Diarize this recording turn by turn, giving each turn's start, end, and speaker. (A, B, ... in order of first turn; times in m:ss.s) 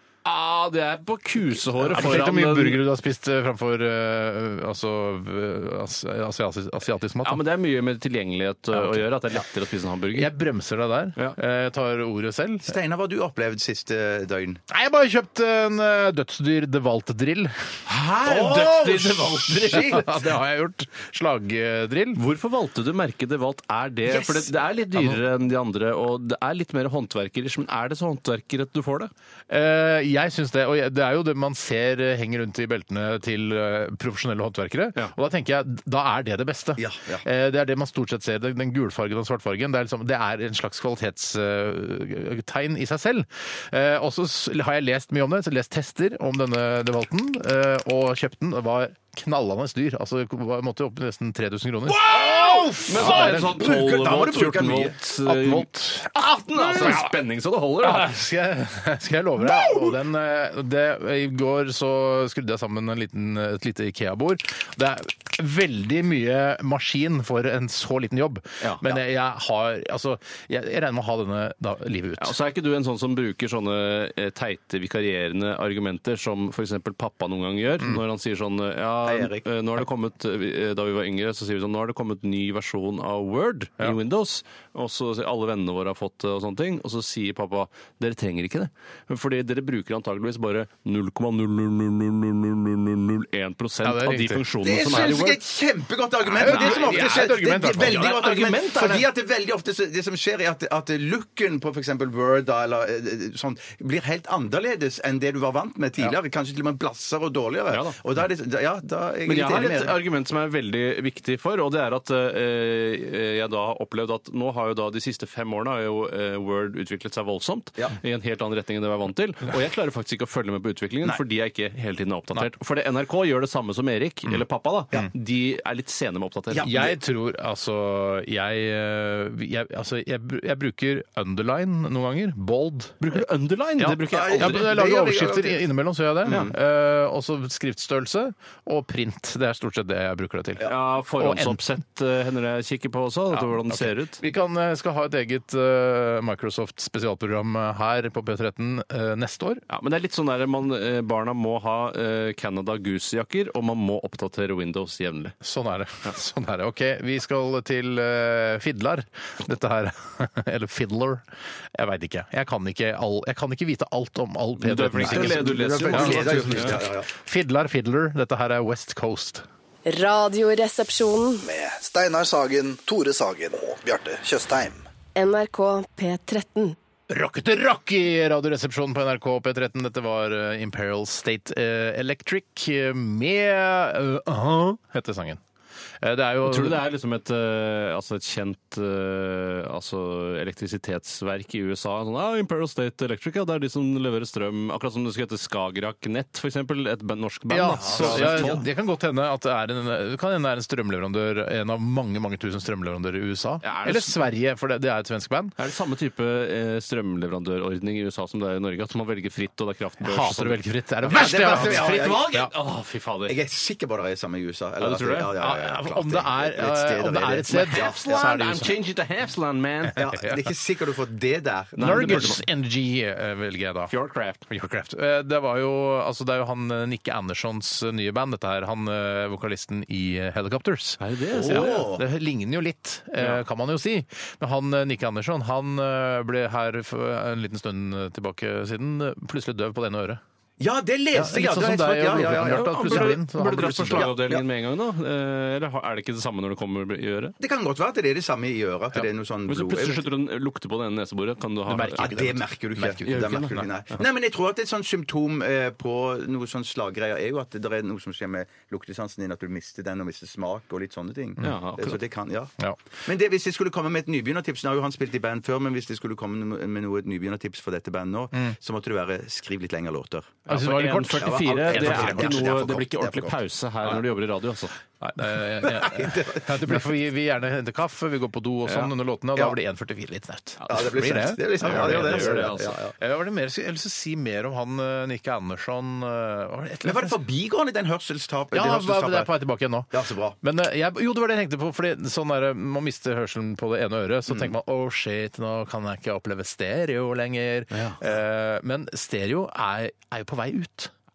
0:00.2-0:02.8 A
0:01.8-0:07.4 B
0:07.2-0:10.3 A
0:08.7-0:09.1 B
0:10.1-0:12.7 B
0:12.7-0:14.6 C
0:14.7-0:17.7 B
0:17.8-0:20.1 A
0:18.2-0:20.0 C
0:19.7-0:22.2 B
0:22.2-0:29.1 A
0:24.0-0:24.5 C
0:24.9-0:25.2 B
0:29.5-0:53.6 B
0:36.8-0:37.2 C
0:51.9-0:58.1 A
0:52.0-0:55.0 C
0:55.2-0:57.2 B
0:57.8-1:12.4 B
1:12.2-1:35.4 A
1:19.0-1:19.5 C
1:33.8-1:35.0 B
1:34.6-1:50.0 C
1:36.3-1:37.2 A
1:36.3-1:38.5 B
1:37.8-1:39.0 A
1:47.7-1:48.0 A
1:49.2-2:06.8 A
2:06.5-2:06.9 C
2:06.6-2:13.2 B
2:13.0-2:14.7 A
2:13.8-2:21.6 B
2:14.0-2:15.6 C
2:16.2-2:16.6 C
2:20.6-2:24.2 A
2:23.3-2:29.6 B
2:29.7-2:35.3 A
2:35.4-2:49.4 B
2:44.6-2:46.8 A
2:45.0-2:47.1 C
2:49.8-2:51.4 D
2:51.4-2:54.8 E
2:55.1-2:56.8 D
2:57.1-3:05.4 B
3:06.0-3:06.8 B
3:06.4-3:18.6 A
3:17.5-3:25.5 B
3:17.8-3:18.6 C
3:23.6-3:24.2 A
3:25.6-3:33.4 A
3:30.0-3:32.5 B
3:31.0-3:32.3 C
3:33.3-3:38.0 C
3:34.8-3:35.3 A
3:35.4-3:38.8 B
3:37.5-3:40.0 A
3:39.9-3:40.5 B
3:39.9-3:42.3 C
3:41.8-3:42.4 A
3:41.8-3:43.9 B
3:43.9-3:44.4 A
3:44.5-4:00.2 B
3:51.0-3:51.9 A
3:51.3-3:52.0 C
4:00.6-4:04.4 C
4:01.1-4:04.1 B
4:02.4-4:07.4 A
4:07.4-4:10.0 C
4:09.5-4:12.2 A
4:11.7-4:13.7 B
4:12.0-4:30.5 C
4:13.0-4:13.6 A
4:21.4-4:22.0 A
4:30.5-4:34.8 A
4:30.5-4:32.6 B
4:31.1-4:33.4 C
4:35.0-4:47.2 B
4:35.6-4:36.8 C
4:40.7-4:42.9 C
4:41.6-4:42.8 A
4:46.8-4:49.3 C
4:48.5-5:00.9 B
4:49.9-4:50.4 C
4:57.7-4:58.0 A